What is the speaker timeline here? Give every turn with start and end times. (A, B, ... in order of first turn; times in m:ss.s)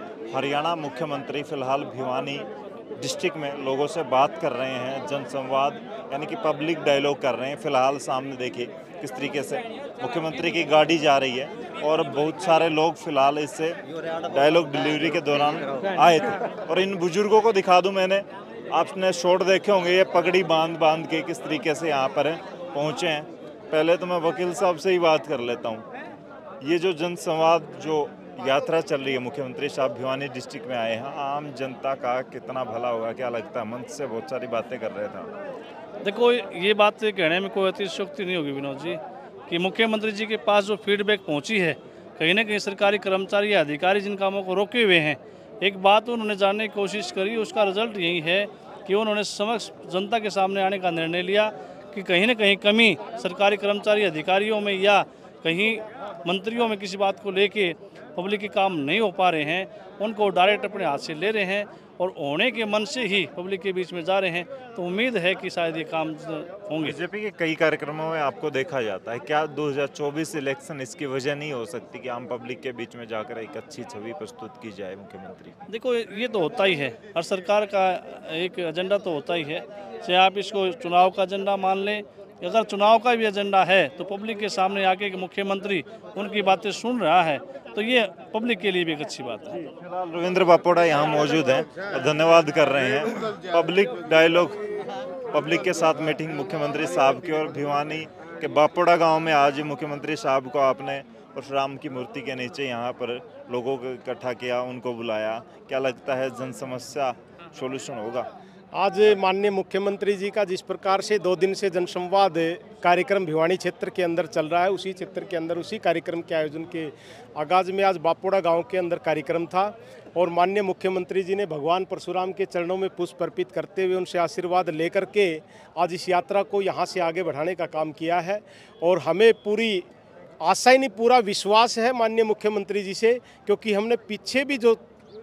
0:00.3-0:02.5 A
0:03.0-0:25.9 A
0:26.6-0:35.3 A
0:36.0-0:39.0 B
0:39.5-1:07.0 B
1:06.8-1:15.6 A
1:15.7-1:29.6 B
1:29.8-1:34.6 A
1:35.3-1:48.3 A
1:48.7-2:09.9 C
2:10.4-2:14.8 C